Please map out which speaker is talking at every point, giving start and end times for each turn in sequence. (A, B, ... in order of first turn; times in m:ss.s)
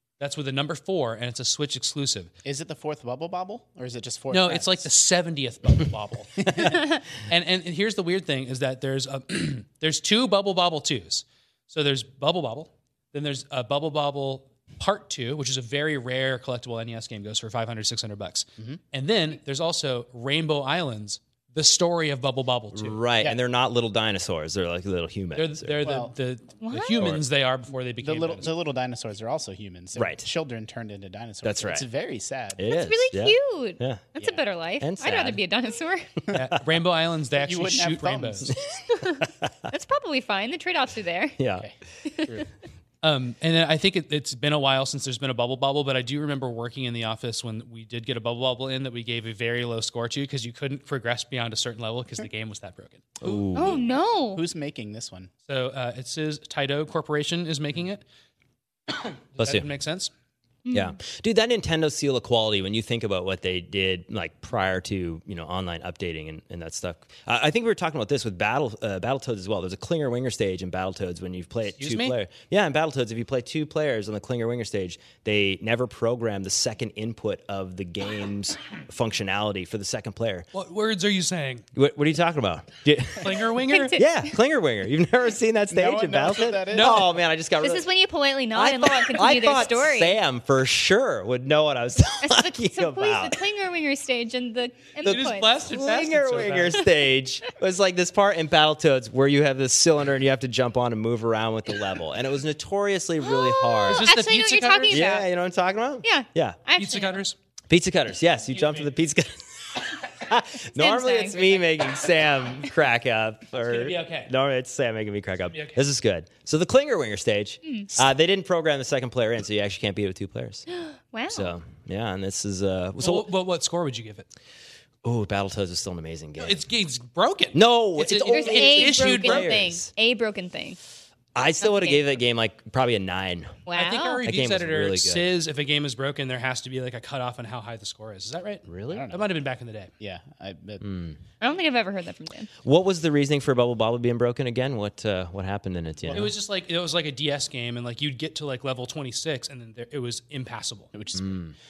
0:00.2-0:02.3 A
0:02.4-0:04.9 B
0:04.3-0:23.0 A
0:06.4-0:06.8 B
0:22.7-0:25.9 C
0:25.4-0:28.5 A
0:25.8-0:26.1 B
0:26.6-0:27.1 D
0:27.0-0:27.2 C
0:28.0-0:32.7 B
0:30.0-0:30.3 C
0:31.4-0:31.9 C
0:32.6-0:34.1 C
0:32.6-0:36.2 D
0:34.8-0:35.4 C
0:36.3-0:38.5 A
0:37.4-0:38.6 B
0:38.5-0:39.7 C
0:38.9-0:41.4 D
0:41.4-0:41.7 C
0:42.0-0:42.4 D
0:43.0-0:53.5 A
0:53.2-0:53.8 C
0:53.6-0:54.4 D
0:53.9-0:55.3 B
0:55.5-0:58.0 A
0:59.4-0:59.7 C
0:59.4-1:00.1 A
1:00.6-1:01.0 D
1:00.7-1:20.5 C
1:11.8-1:12.2 A
1:20.5-1:21.6 A
1:21.8-1:27.8 C
1:23.2-1:24.0 A
1:23.7-1:24.3 D
1:25.7-1:27.1 B
1:26.7-1:27.1 A
1:27.6-1:30.2 D
1:28.6-1:33.4 C
1:32.2-1:35.5 D
1:35.0-1:36.8 A
1:35.1-1:44.1 C
1:43.2-1:45.3 D
1:43.9-1:45.0 A
1:44.9-1:46.6 C
1:46.0-1:47.2 D
1:46.8-1:47.4 A
1:47.7-2:00.7 C
1:48.5-1:48.9 A
1:50.7-1:51.9 D
1:53.6-1:54.3 A
1:55.5-1:55.8 A
2:00.7-2:01.5 D
2:01.3-2:03.3 C
2:03.0-2:04.3 A
2:05.0-2:06.6 C
2:06.4-2:09.6 A
2:07.5-2:09.9 C
2:08.3-2:10.8 D
2:11.4-2:13.6 C
2:11.6-2:12.0 D
2:13.7-2:14.2 D
2:13.8-2:19.9 A
2:14.2-2:15.3 C
2:18.7-2:19.1 C
2:18.9-2:19.3 B
2:20.0-2:20.9 B
2:20.8-2:21.2 C
2:21.4-2:22.5 D
2:22.6-2:26.3 C
2:26.0-2:26.3 B
2:26.1-2:30.9 A
2:30.9-2:31.5 B
2:31.2-2:31.5 C